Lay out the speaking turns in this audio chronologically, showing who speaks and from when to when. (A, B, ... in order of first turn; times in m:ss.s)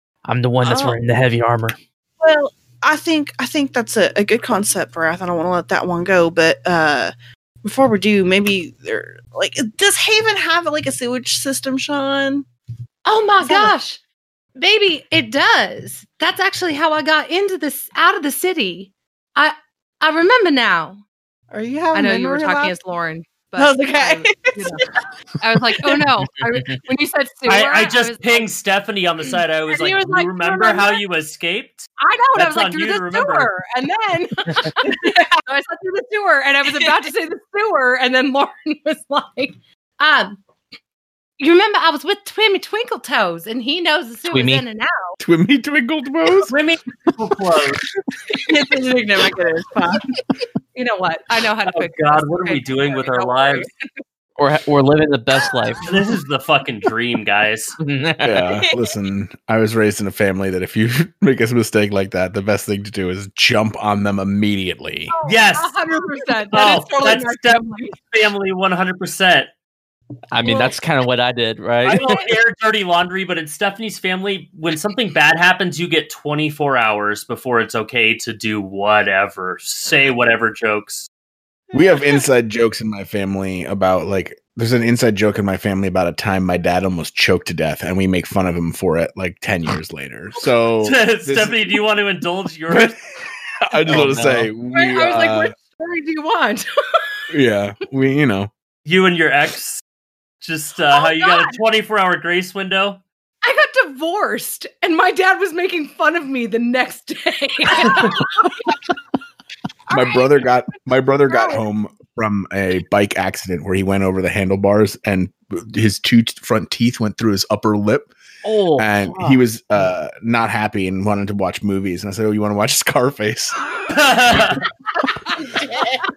0:00.2-0:01.8 A
0:00.6-0:01.0 B
0:02.2-0:07.1 B
0:07.6-0:12.4 B
0:13.0-0:14.0 C
0:13.4-0:13.7 B
0:14.6-0:21.0 C
0:21.5-0:22.7 B
0:21.9-0:24.8 C
0:23.6-0:24.9 B
0:25.4-0:28.5 C
0:25.7-0:26.0 B
0:26.4-0:26.8 A
0:27.4-0:33.5 D
0:29.7-0:31.0 C
0:32.0-0:40.4 C
0:41.4-0:45.2 C
0:44.3-0:44.6 A
0:45.2-0:46.5 E
0:46.5-0:47.8 D
0:48.3-0:50.1 B
0:50.7-0:53.7 C
0:51.7-0:53.7 D
0:54.4-0:55.9 A
0:55.8-0:57.8 D
0:57.8-0:58.4 A
0:58.2-1:05.1 E
1:05.1-1:08.0 C
1:05.2-1:05.8 D
1:06.5-1:09.5 D
1:10.3-1:12.2 A
1:10.4-1:10.8 C
1:11.8-1:21.1 D
1:21.7-1:31.8 E
1:21.8-1:22.2 B
1:30.8-1:33.0 D
1:32.7-1:35.5 E
1:33.9-1:34.5 A
1:34.7-1:36.7 C
1:37.3-1:38.5 E
1:38.8-1:39.8 D
1:40.4-1:43.0 D
1:40.9-1:41.5 C
1:43.4-1:48.6 C
1:49.9-1:50.4 C
1:49.9-1:58.1 E
1:51.3-1:51.6 C
1:58.4-1:59.4 A
1:58.8-2:03.6 E
2:03.9-2:04.6 D
2:05.4-2:06.0 B